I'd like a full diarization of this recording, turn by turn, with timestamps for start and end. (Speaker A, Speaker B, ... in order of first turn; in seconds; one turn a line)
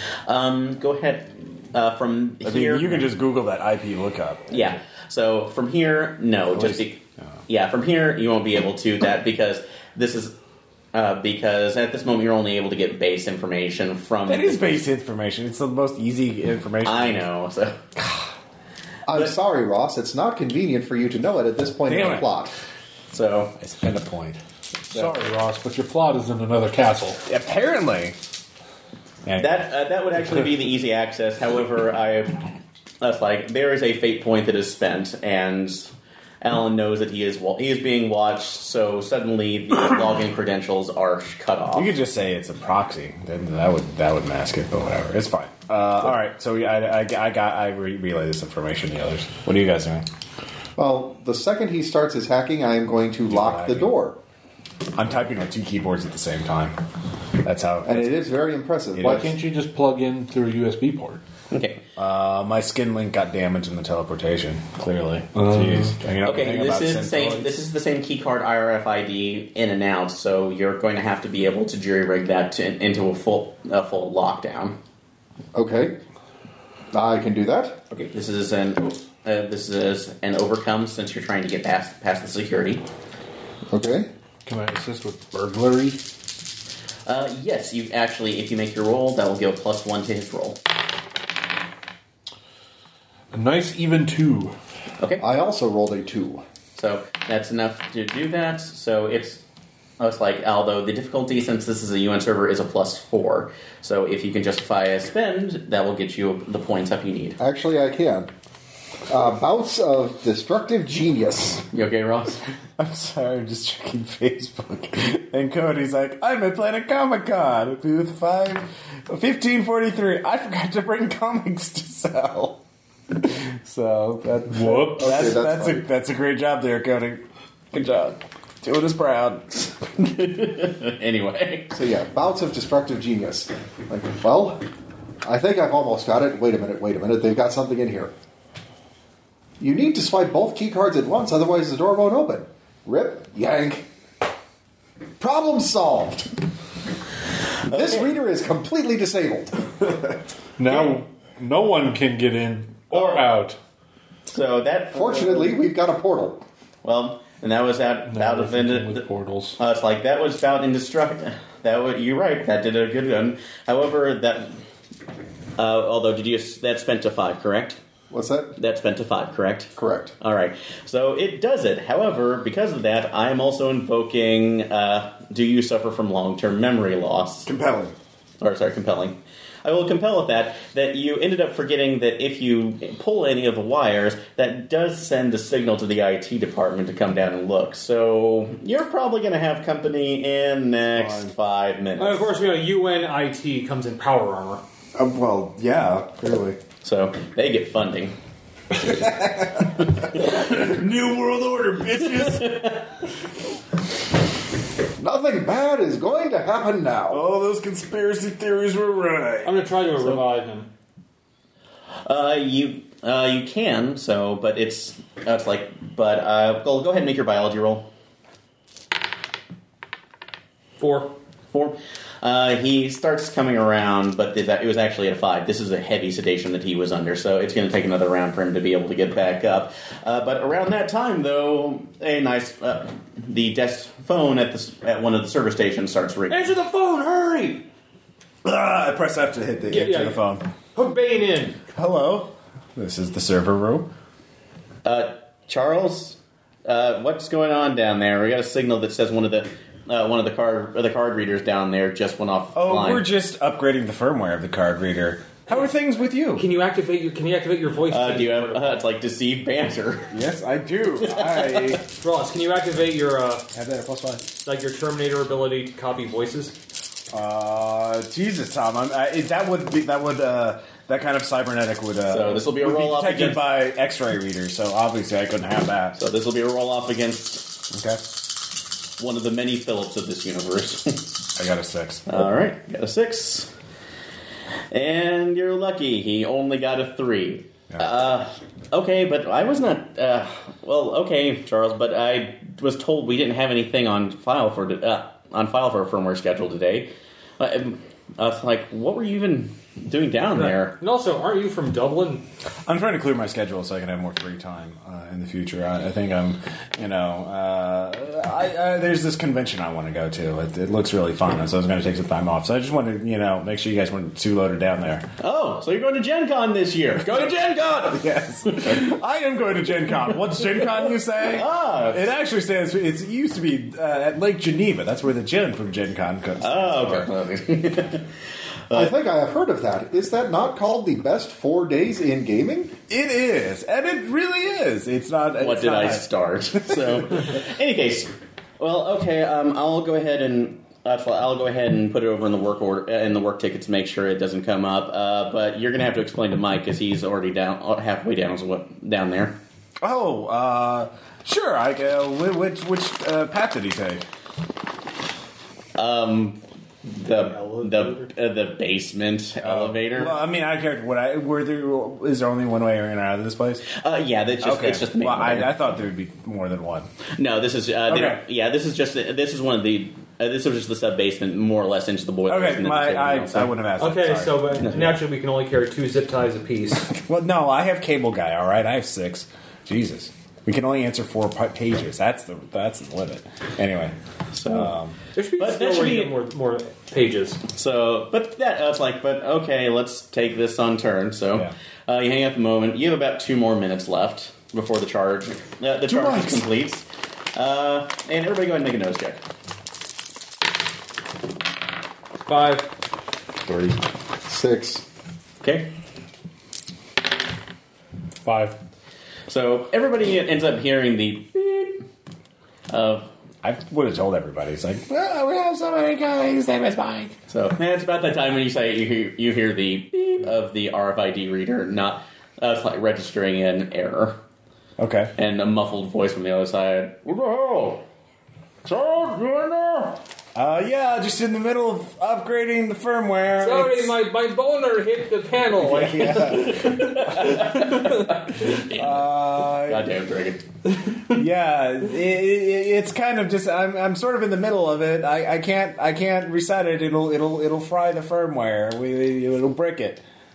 Speaker A: 0.2-2.9
Speaker B: 2.4-4.7
Speaker A: 4.5-10.3
Speaker B: 6.5-6.8
Speaker A: 10.9-14.8
Speaker B: 14.3-17.2
Speaker A: 16.8-17.8
Speaker B: 17.9-18.3
Speaker C: 19.1-22.5
Speaker B: 21.8-22.3
Speaker A: 23.1-23.6
Speaker B: 23.6-24.4
Speaker D: 24.9-27.2
Speaker B: 27.2-28.1
Speaker A: 29.4-32.5
Speaker A: 33.0-41.9
Speaker B: 41.7-50.0
Speaker C: 50.8-54.2
Speaker B: 53.3-53.9
Speaker B: 54.9-56.8
Speaker B: 57.4-58.2
Speaker C: 57.8-59.3
Speaker B: 58.9-59.2
Speaker D: 59.0-61.2
Speaker A: 61.5-61.8
Speaker B: 62.0-67.5
Speaker D: 65.3-65.9
Speaker A: 66.2-74.8
Speaker C: 75.5-76.0
Speaker C: 76.9-77.8
Speaker A: 77.9-82.8
Speaker C: 83.7-84.1
Speaker D: 84.4-86.0
Speaker A: 87.1-90.6
Speaker D: 93.3-94.5
Speaker C: 95.2-96.4
Speaker A: 96.8-99.4
Speaker A: 100.0-107.4
Speaker C: 107.4-108.3
Speaker C: 109.1-111.6
Speaker A: 111.7-112.4
Speaker B: 112.8-122.6
Speaker B: 123.2-129.7
Speaker D: 124.5-125.2
Speaker C: 125.0-125.8
Speaker A: 127.7-128.1
Speaker A: 130.0-131.8
Speaker C: 131.7-134.6
Speaker C: 135.2-138.1
Speaker C: 139.6-143.9
Speaker C: 145.2-146.3
Speaker A: 147.7-148.1
Speaker C: 147.7-149.9
Speaker D: 150.6-153.6
Speaker A: 150.7-151.0
Speaker A: 152.9-153.2
Speaker A: 154.3-155.5
Speaker C: 154.9-156.4
Speaker A: 156.8-159.1
Speaker D: 158.1-159.6
Speaker A: 159.6-164.6
Speaker A: 165.6-167.8
Speaker C: 168.1-168.6
Speaker A: 168.6-177.5
Speaker C: 169.8-170.1
Speaker B: 177.4-177.9
Speaker A: 178.4-192.3
Speaker B: 190.9-191.3
Speaker E: 192.0-194.6
Speaker B: 194.9-196.6
Speaker A: 196.8-198.2
Speaker B: 198.8-202.6
Speaker A: 202.4-202.8
Speaker C: 205.0-207.2
Speaker B: 207.1-209.6
Speaker E: 209.4-210.7
Speaker A: 212.0-217.9
Speaker E: 220.8-221.1
Speaker A: 221.5-236.5
Speaker E: 236.3-237.7
Speaker B: 238.4-240.4
Speaker E: 239.7-240.2
Speaker E: 240.7-241.6
Speaker B: 241.7-243.9
Speaker A: 244.8-253.0
Speaker B: 252.5-256.4
Speaker E: 256.4-258.8
Speaker A: 257.9-260.1
Speaker B: 260.1-261.8
Speaker A: 261.0-261.7
Speaker E: 261.9-263.5
Speaker B: 263.5-264.3
Speaker E: 264.4-266.6
Speaker B: 267.1-275.9
Speaker A: 272.1-273.4
Speaker A: 275.9-277.6
Speaker B: 277.7-278.0
Speaker A: 279.0-281.0
Speaker B: 281.4-282.1
Speaker A: 282.1-283.5
Speaker A: 284.7-300.7
Speaker E: 300.3-302.2
Speaker B: 302.6-315.1
Speaker A: 315.2-318.8
Speaker B: 317.9-327.1
Speaker A: 321.3-322.1
Speaker A: 326.4-328.1
Speaker C: 328.7-332.8
Speaker B: 332.9-336.0
Speaker A: 335.4-349.4
Speaker B: 336.6-336.9
Speaker B: 349.8-354.0
Speaker A: 355.8-360.2
Speaker E: 357.1-358.1
Speaker B: 359.4-363.6
Speaker A: 363.7-365.5
Speaker B: 364.4-366.9
Speaker A: 367.2-373.5
Speaker B: 367.9-368.2
Speaker B: 372.3-374.9
Speaker E: 373.8-376.9
Speaker A: 374.6-375.0
Speaker B: 376.9-384.9
Speaker A: 384.3-384.7
Speaker E: 385.1-387.4
Speaker A: 385.4-386.1
Speaker A: 387.5-399.2
Speaker B: 395.9-396.3
Speaker E: 402.2-402.7
Speaker C: 404.3-404.8
Speaker A: 405.4-405.7
Speaker D: 408.2-408.6
Speaker A: 409.3-411.8
Speaker A: 412.7-413.1
Speaker B: 413.4-417.1
Speaker A: 417.3-424.2
Speaker B: 424.8-425.1
Speaker A: 425.1-427.8
Speaker A: 428.6-430.0
Speaker B: 430.3-433.9
Speaker E: 433.4-437.9
Speaker B: 435.6-437.4
Speaker A: 436.4-440.4
Speaker B: 438.5-439.9
Speaker B: 441.1-450.0